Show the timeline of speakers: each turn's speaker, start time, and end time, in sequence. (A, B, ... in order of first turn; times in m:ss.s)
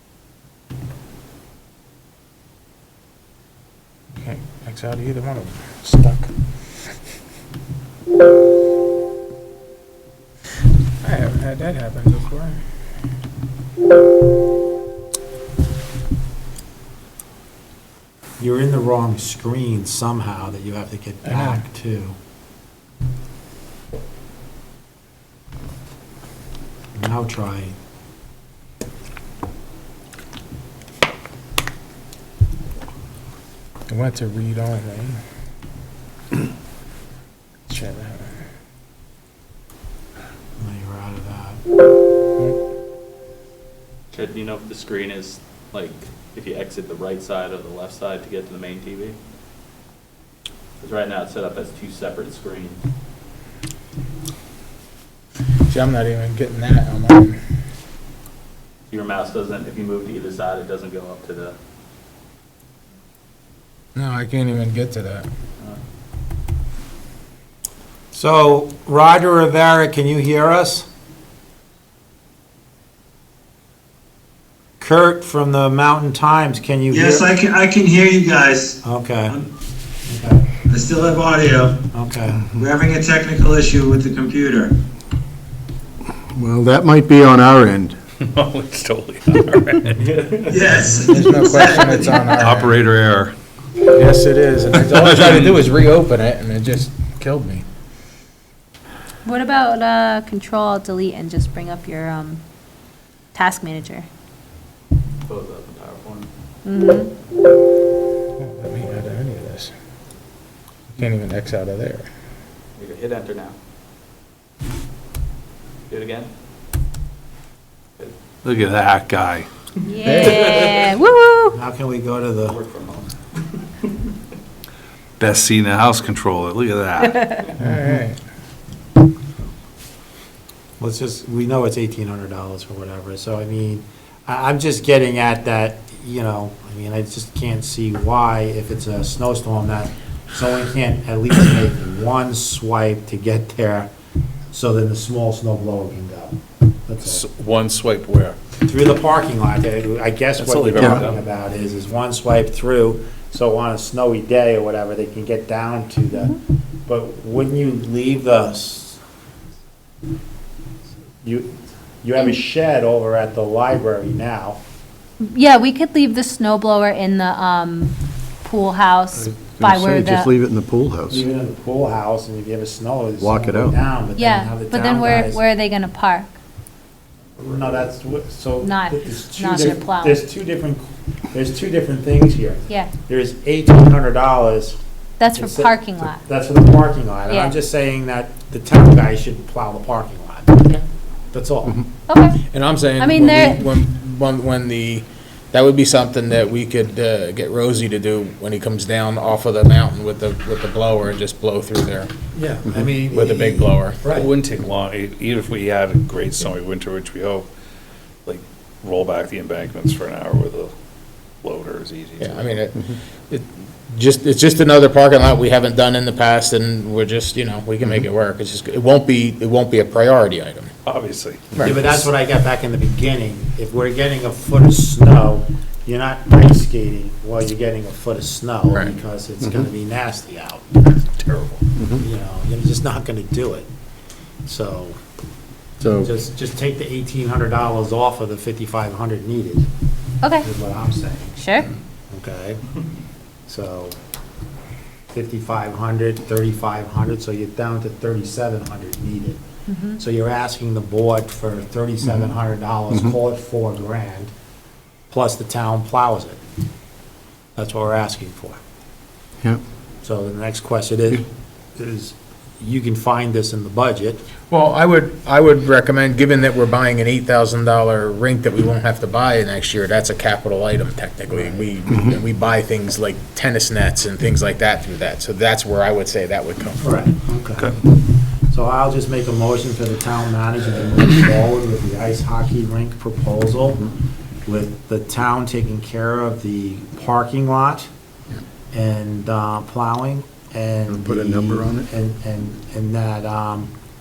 0:04.2-0:06.3 A
0:11.0-0:12.6 A
0:18.4-0:22.2 B
0:21.2-0:21.6 A
0:26.9-0:27.8 B
0:33.9-0:35.2 A
0:37.7-0:38.3 A
0:40.6-0:41.6 B
0:44.1-0:49.2 C
0:50.8-0:52.8 C
0:55.7-0:57.4 A
0:58.9-1:01.5 C
1:04.0-1:05.3 A
1:08.1-1:10.9 B
1:14.8-1:17.3 B
1:16.9-1:19.4 D
1:18.8-1:19.4 B
1:20.0-1:20.4 B
1:20.6-1:21.8 D
1:21.9-1:22.5 B
1:22.5-1:24.8 D
1:26.3-1:28.0 E
1:28.2-1:30.0 F
1:29.9-1:30.8 C
1:30.5-1:32.2 D
1:30.8-1:32.7 A
1:31.3-1:31.7 C
1:32.3-1:33.3 F
1:33.9-1:37.6 A
1:34.7-1:35.6 F
1:39.2-1:42.4 G
1:43.3-1:44.1 G
1:45.2-1:46.3 C
1:46.6-1:47.1 G
1:48.4-1:49.7 A
1:50.9-1:52.1 A
1:52.8-1:53.6 C
1:55.9-1:56.3 C
1:58.4-1:59.5 F
1:59.8-2:01.6 G
2:00.0-2:00.6 A
2:00.1-2:00.9 C
2:01.5-2:02.6 B
2:02.4-2:03.1 C
2:05.2-2:07.4 F
2:07.6-2:08.2 A
2:10.8-2:23.9 B
2:24.5-2:27.2 B
2:27.0-2:28.4 F
2:28.6-2:36.3 B
2:30.4-2:31.2 F
2:30.8-2:31.0 E
2:36.9-2:39.0 B
2:41.2-2:44.6 B
2:45.2-2:50.3 G
2:49.3-2:51.2 E
2:51.1-2:55.4 B
2:53.2-2:53.8 E
2:54.1-2:56.3 G
2:57.4-3:04.8 B
2:58.6-3:00.2 G
3:05.2-3:06.2 G
3:05.3-3:10.8 B
3:07.3-3:07.5 G
3:11.3-3:11.8 B
3:12.1-3:12.4 G
3:12.5-3:22.1 A
3:13.0-3:13.7 G
3:22.3-3:24.3 B
3:23.0-3:24.0 A
3:24.1-3:27.5 F
3:28.2-3:30.7 F
3:31.4-3:32.6 F
3:32.2-3:40.7 A
3:40.8-3:41.6 F
3:41.6-3:41.8 A
3:41.6-3:53.7 B
3:54.4-3:55.0 B
3:55.8-3:56.1 E
3:56.0-3:59.6 B
4:00.2-4:00.5 G
4:00.4-4:02.6 B
4:01.4-4:01.7 G
4:03.5-4:03.9 B
4:05.1-4:09.4 B
4:09.7-4:10.0 G
4:10.0-4:14.3 B
4:15.1-4:16.4 B
4:17.6-4:18.6 B
4:20.0-4:24.2 B
4:24.5-4:36.9 A
4:31.3-4:31.6 B
4:36.8-4:37.8 B
4:38.5-4:43.9 B
4:44.4-4:47.9 B
4:48.7-4:53.7 B
4:50.9-4:51.9 E